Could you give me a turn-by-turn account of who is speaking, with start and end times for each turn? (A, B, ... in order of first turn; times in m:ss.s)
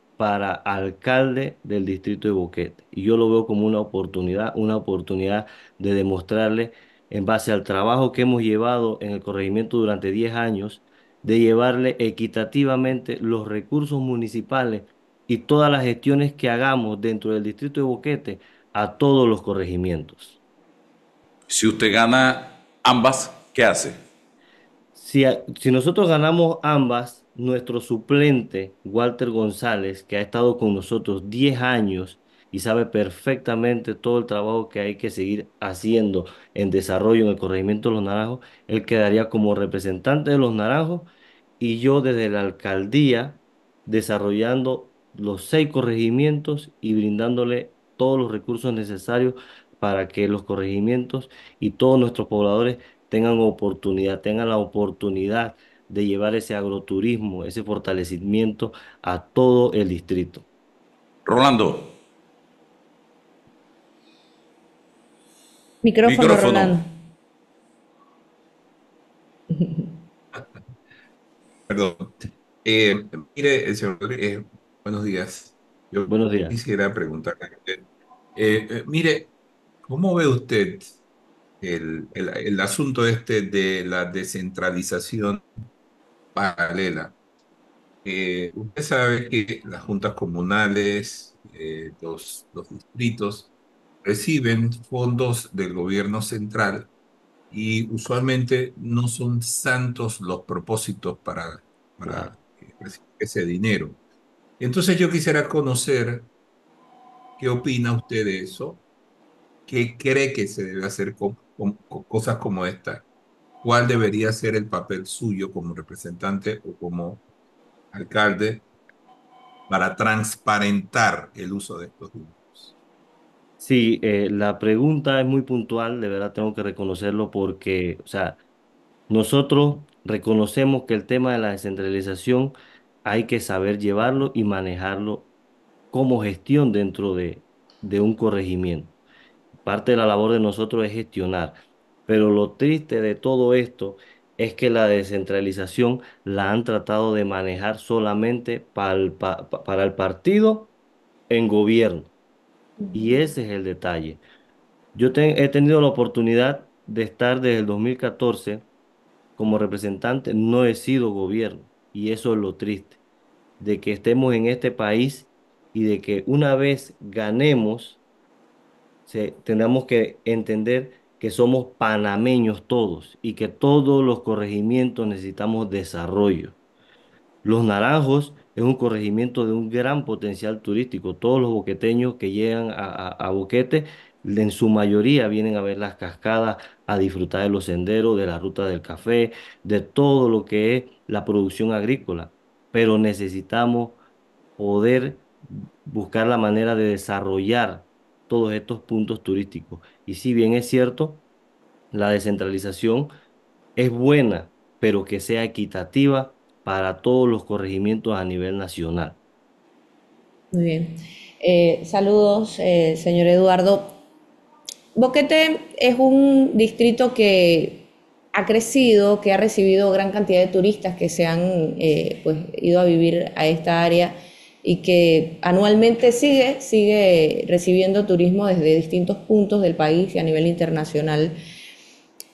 0:00.2-0:20.4 A
0:21.5-0:24.0 B
0:24.9-1:00.4 A
1:01.2-1:01.9 B
1:05.8-1:06.9 C
1:06.0-1:06.8 B
1:09.5-1:09.9 C
1:11.7-1:12.1 D
1:12.6-1:17.8 D
1:16.1-1:16.6 A
1:18.4-1:19.3 D
1:19.8-1:20.9 D
1:21.6-1:25.4 D
1:26.3-1:27.1 D
1:28.0-1:33.5 D
1:34.0-1:36.9 D
1:37.5-1:44.0 D
1:44.6-1:46.3 D
1:47.4-1:48.8 D
1:49.7-1:53.0 D
1:53.6-1:57.2 D
1:57.9-1:58.6 D
1:59.7-2:02.7 D
2:03.6-2:08.4 A
2:09.1-2:12.5 A
2:13.0-2:15.3 A
2:15.9-2:18.9 A
2:19.6-2:30.7 A
2:31.3-2:32.1 A
2:32.9-2:33.2 C
2:32.9-2:34.2 A
2:34.9-2:38.6 A
2:39.4-2:43.0 A
2:43.6-2:48.0 A
2:49.1-2:56.6 A
2:57.4-3:14.0 A
3:14.6-3:15.3 A
3:15.8-3:21.2 A
3:21.9-3:23.1 A
3:23.8-3:29.2 A
3:30.5-3:34.0 C
3:34.9-3:51.3 C